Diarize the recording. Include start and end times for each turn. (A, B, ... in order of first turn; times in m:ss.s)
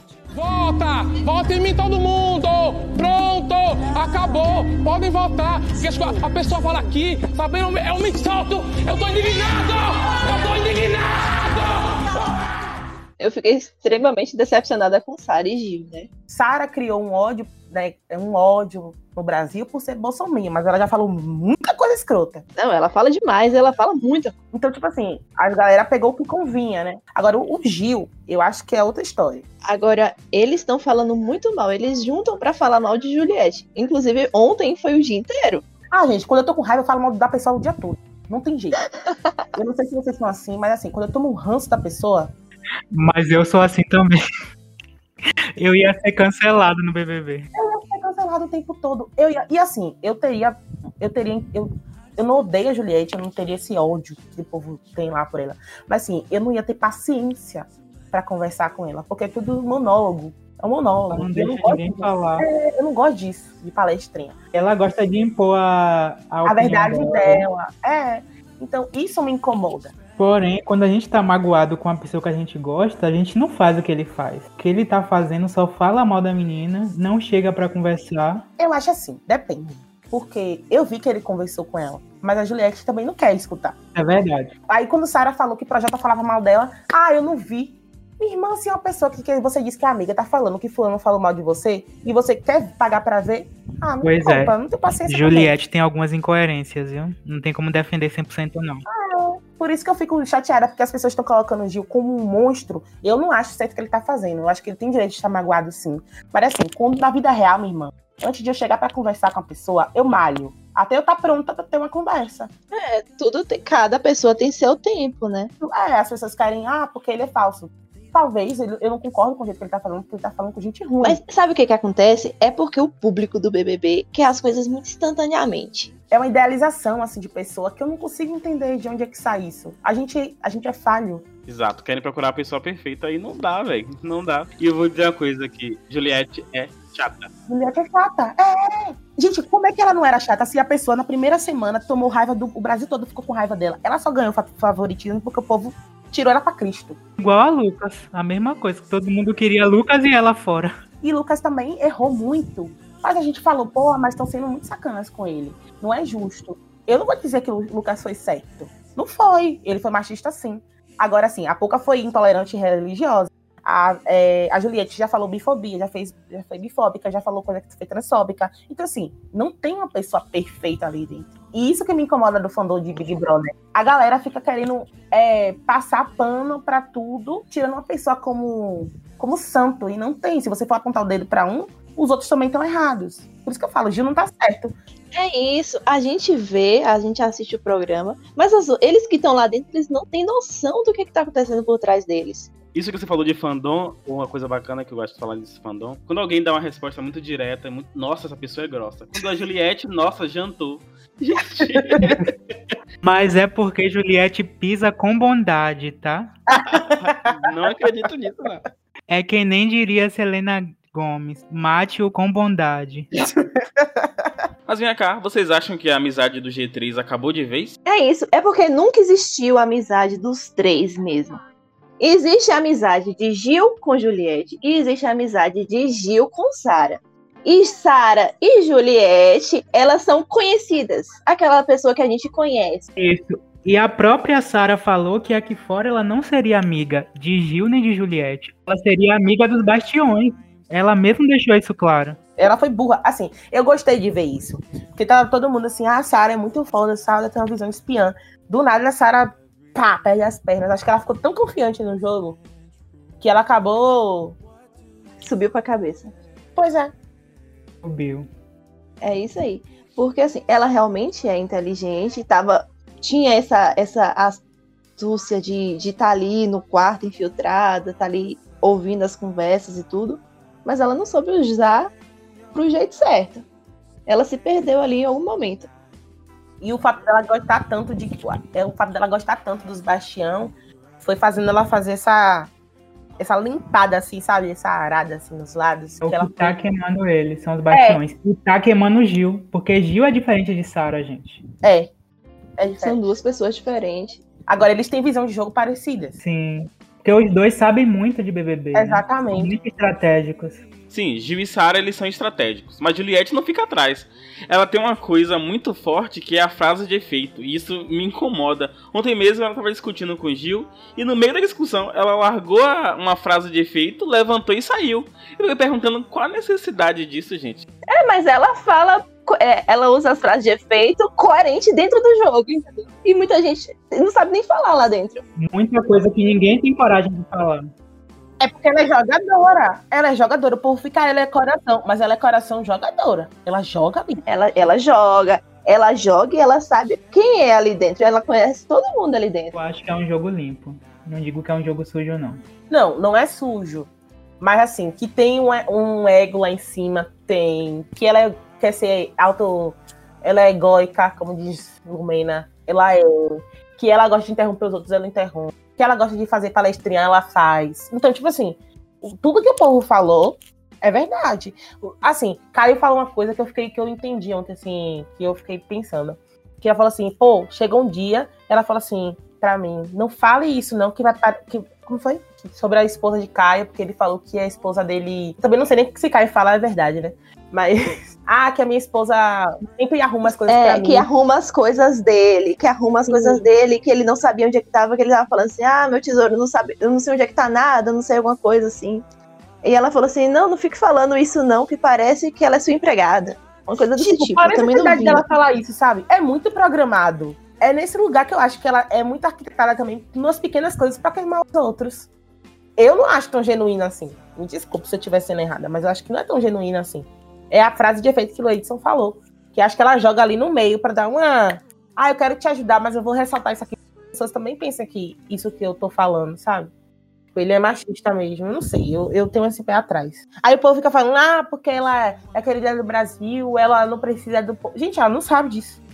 0:00.3-0:12.2 A
0:13.2-0:16.1 B
0:16.3-0:22.4 C
0:22.6-0:24.4 B
0:24.5-0:29.4 C
0:29.7-0:35.6 B
0:35.9-0:38.8 C
0:39.0-0:39.4 B
0:39.5-0:42.3 C
0:42.9-0:44.2 D
0:45.6-0:47.5 D
0:47.5-1:04.4 C
1:01.1-1:02.5 D
1:04.5-1:07.4 D
1:06.4-1:09.9 C
1:10.2-1:18.5 D
1:18.6-1:23.7 C
1:23.9-1:24.5 D
1:24.7-1:35.5 C
1:34.0-1:38.8 D
1:38.9-1:52.5 C
1:52.7-1:55.5 B
1:55.6-2:01.2 C
2:01.0-2:05.9 B
2:06.1-2:11.2 C
2:11.5-2:17.3 E
2:17.5-2:27.0 C
2:27.2-2:30.7 D
2:31.0-3:04.7 C
3:05.1-3:12.5 B
3:12.7-3:22.1 E
3:23.0-3:26.4 D
3:26.5-3:26.9 C
3:27.0-3:28.6 E
3:29.1-3:33.1 D
3:33.3-3:33.9 C
3:34.7-3:37.7 E
3:37.9-3:41.4 B
3:42.0-3:52.9 B
3:53.0-4:02.2 D
4:02.4-4:12.4 C
4:13.2-4:14.4 C
4:15.2-4:16.1 B
4:16.6-4:16.9 C
4:17.8-4:18.3 D
4:19.0-4:24.4 B
4:25.0-4:31.9 B
4:32.5-4:33.4 B
4:34.1-4:35.7 B
4:36.6-4:42.5 C
4:43.2-4:46.6 C
4:46.0-4:51.4 D
4:47.7-4:48.0 C
4:51.6-4:51.9 C
4:52.6-4:53.0 C
4:52.8-4:54.2 B
4:54.5-4:56.2 C
4:56.2-5:00.6 D
4:58.7-4:59.5 C
5:00.9-5:17.6 E
5:17.9-5:25.2 B
5:25.4-5:27.7 D
5:28.4-5:34.2 C
5:34.3-5:39.5 B
5:39.5-5:42.4 D
5:42.7-5:43.9 C
5:44.4-6:21.1 C
6:20.5-6:29.0 B
6:23.1-6:23.4 C
6:29.6-6:35.2 B
6:34.0-6:42.1 C
6:42.8-6:56.7 C
6:57.4-7:05.8 C